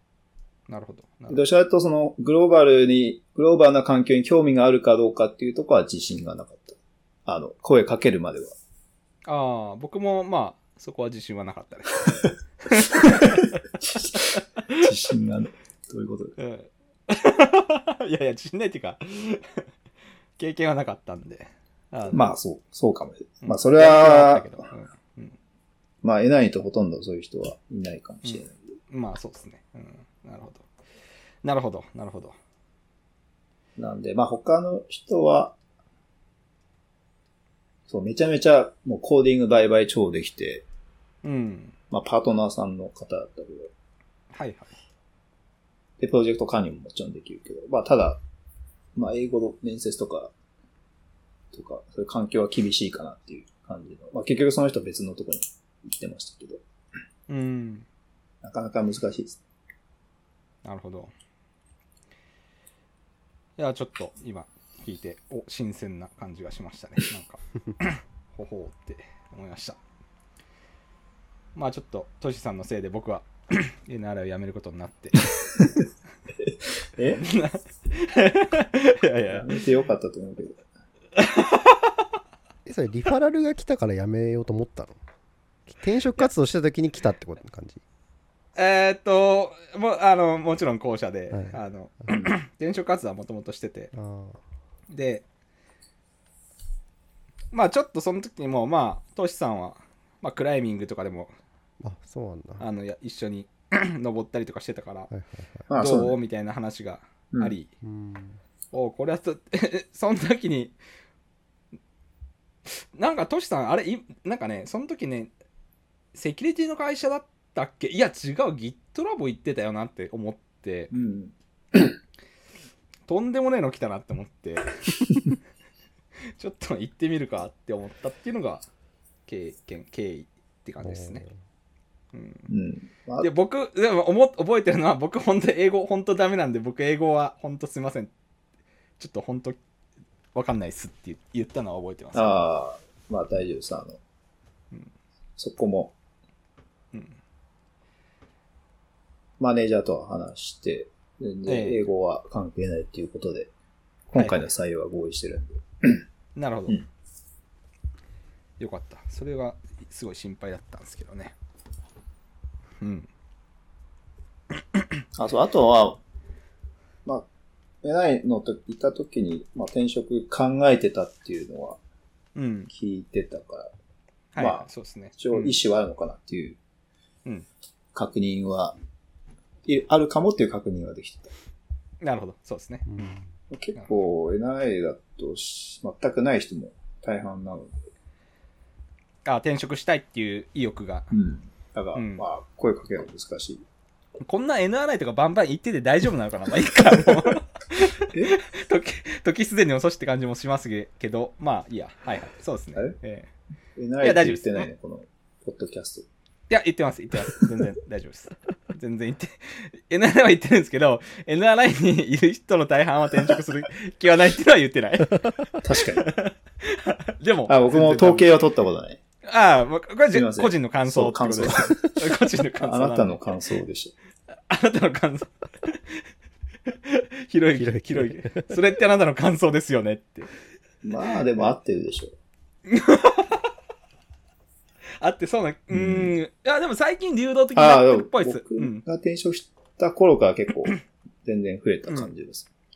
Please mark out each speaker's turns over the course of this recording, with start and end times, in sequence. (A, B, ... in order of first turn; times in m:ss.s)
0:00.7-0:01.4 A
0:01.3-0:08.5 B
0:09.2-0:14.8 A
0:12.9-0:16.4 B
0:16.4-0:19.6 A
0:20.4-0:22.3 A
0:22.1-0:24.7 B
0:23.4-0:25.4 A
0:26.0-0:28.7 B
0:28.2-0:30.7 A
0:31.4-0:32.4 A
0:33.8-0:35.6 B
0:37.9-0:40.6 B
0:41.2-0:41.7 A
0:41.9-0:43.7 B
0:44.3-0:44.7 A
0:46.0-0:48.2 B
0:49.0-0:50.3 B
0:51.5-0:56.6 B
0:57.3-0:57.8 A
0:58.4-0:59.4 B
1:00.6-1:01.1 A
1:03.6-1:09.8 A
1:11.5-1:15.3 A
1:17.0-1:17.2 B
1:17.1-1:19.5 A
1:19.3-1:20.6 B
1:21.2-1:22.0 A
1:22.6-1:25.0 C
1:25.7-1:27.8 C
1:28.6-1:33.9 A
1:31.3-1:31.6 C
1:33.9-1:34.4 C
1:34.9-1:35.2 A
1:37.5-1:41.3 A
1:41.8-1:42.6 C
1:42.6-1:45.1 A
1:45.1-1:45.6 C
1:45.7-1:46.2 B
1:45.7-1:47.7 A
1:47.8-1:48.4 C
1:48.7-1:50.7 A
1:52.6-1:55.3 A
1:56.1-2:00.9 A
2:00.9-2:01.9 B
2:03.1-2:05.3 A
2:06.4-2:08.6 A
2:09.2-2:11.2 A
2:10.8-2:11.3 C
2:12.1-2:12.5 A
2:12.5-2:13.3 B
2:13.2-2:18.1 A
2:19.0-2:19.6 A
2:20.3-2:22.4 A
2:22.1-2:24.0 B
2:25.4-2:25.9 B
2:26.9-2:27.2 A
2:29.4-2:33.5 B
2:31.5-2:31.8 A
2:34.1-2:36.0 B
2:34.1-2:34.5 A
2:36.4-2:36.8 A
2:38.6-2:41.3 A
2:42.8-2:43.1 A
2:45.1-2:46.0 B
2:47.8-2:51.8 B
2:52.4-2:52.7 A
2:52.7-2:53.7 B
2:54.3-2:55.6 A
2:54.4-2:56.6 B
2:57.9-2:58.8 B
2:59.6-3:01.3 B
3:02.0-3:02.8 A
3:02.9-3:03.3 C
3:03.5-3:07.8 B
3:09.2-3:11.1 A
3:11.1-3:13.6 B
3:11.9-3:12.2 A
3:14.2-3:23.3 A
3:23.8-3:26.0 B
3:24.0-3:24.7 A
3:26.5-3:38.4 A
3:35.6-3:36.1 B
3:37.5-3:39.0 B
3:39.2-3:43.2 A
3:40.1-3:42.0 B
3:42.6-3:43.9 B
3:44.5-3:46.0 A
3:46.7-3:50.3 A
3:47.6-3:48.5 C
3:50.8-3:52.1 B
3:52.7-3:53.5 A
3:55.0-3:58.8 A
3:55.7-3:56.1 B
3:57.5-4:02.5 B